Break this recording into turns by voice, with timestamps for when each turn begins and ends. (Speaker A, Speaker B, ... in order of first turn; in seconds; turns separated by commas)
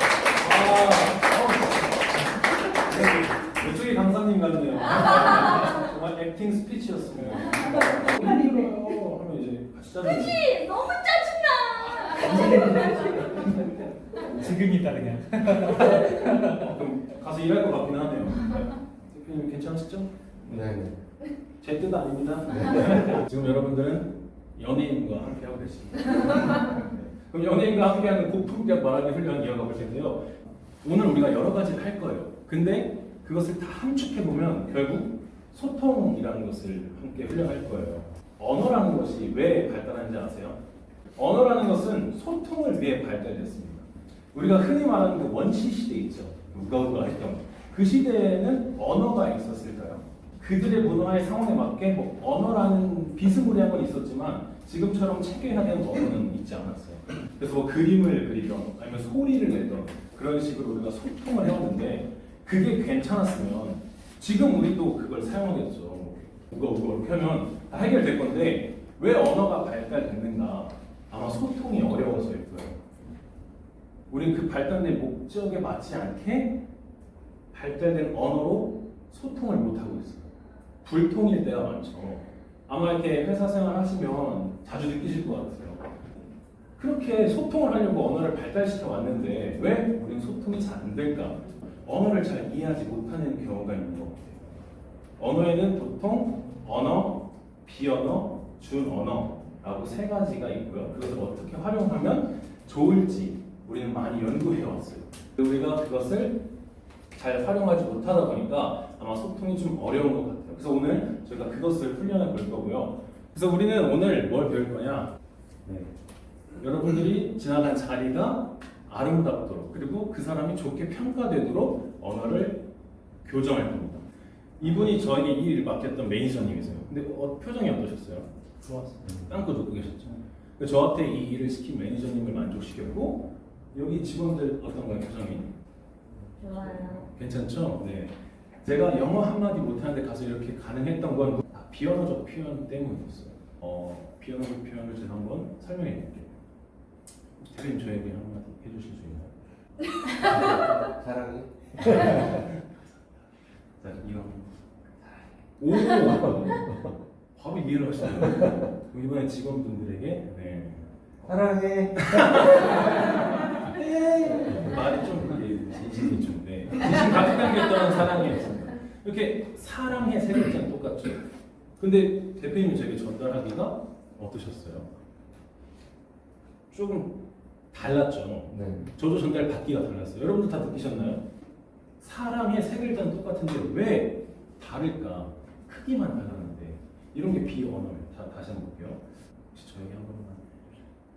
Speaker A: 0.3-2.2, Speaker A: 2.7-10.4, Speaker B: 10.1-13.6, Speaker A: 12.3-14.2, Speaker C: 14.3-16.6, Speaker A: 15.6-20.1, Speaker D: 20.5-21.0, Speaker A: 21.6-30.3, Speaker D: 22.5-22.9, Speaker A: 30.8-40.6, Speaker A: 41.2-72.8, Speaker A: 74.1-76.6, Speaker A: 77.5-85.8, Speaker A: 86.8-94.4, Speaker A: 95.2-106.5, Speaker A: 107.1-115.9, Speaker A: 116.6-122.7, Speaker A: 123.2-124.1, Speaker A: 124.6-128.3, Speaker A: 129.1-135.5, Speaker B: 136.4-137.0, Speaker A: 136.5-146.3, Speaker A: 147.4-149.3, Speaker D: 150.3-152.4, Speaker A: 151.9-152.5, Speaker A: 153.8-154.5, Speaker A: 155.6-160.9, Speaker D: 161.2-162.8, Speaker A: 161.9-171.2, Speaker A: 171.8-174.9, Speaker A: 176.7-177.2, Speaker A: 177.7-181.2, Speaker D: 178.5-178.8, Speaker A: 182.0-190.7